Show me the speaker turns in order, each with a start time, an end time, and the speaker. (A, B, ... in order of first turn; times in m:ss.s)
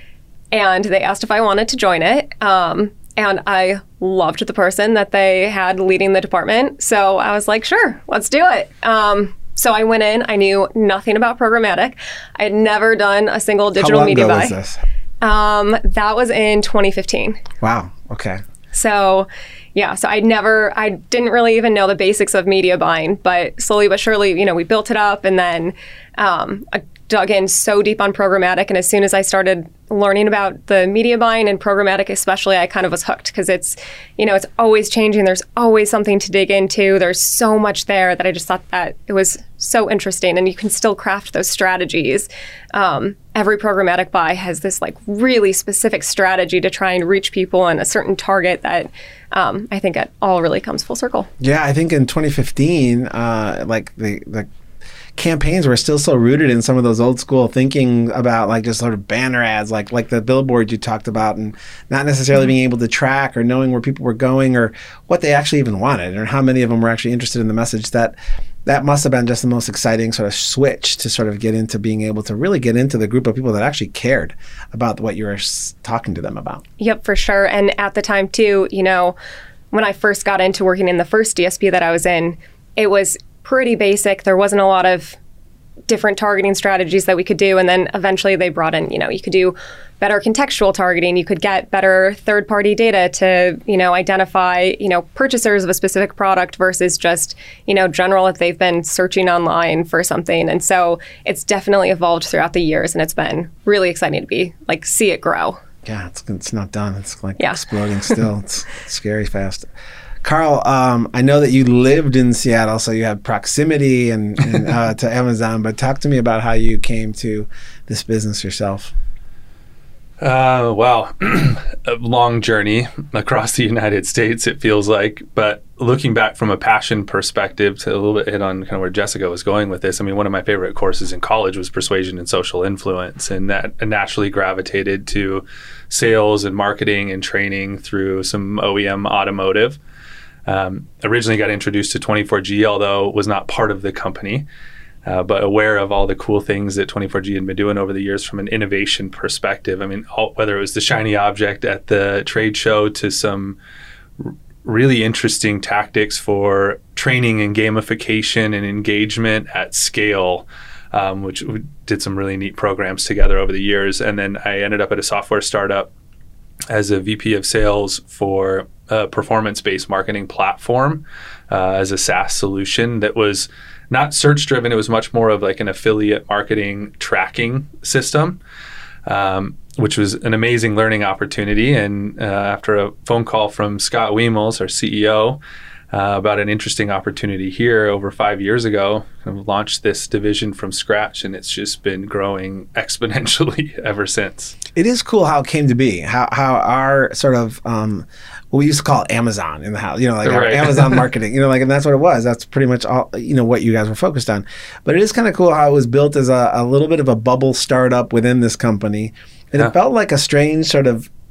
0:00.5-0:14.5 A
0:13.7-0:14.8 B
0:15.2-0:17.4 A
0:17.6-0:18.4 B
0:18.7-0:51.3 A
0:51.4-0:54.5 B
0:55.2-1:08.1 B
1:08.6-1:16.6 B
1:16.8-1:19.2 A
1:19.7-1:25.2 A
1:25.9-1:45.6 A
1:45.8-1:49.7 B
1:50.2-1:58.9 B
2:00.2-2:19.8 C
2:20.4-2:24.4 C
2:25.0-2:33.6 C
2:34.2-2:45.9 C
2:46.7-2:58.4 C
2:59.0-3:14.6 C
3:14.7-3:31.1 B
3:20.2-3:21.0 C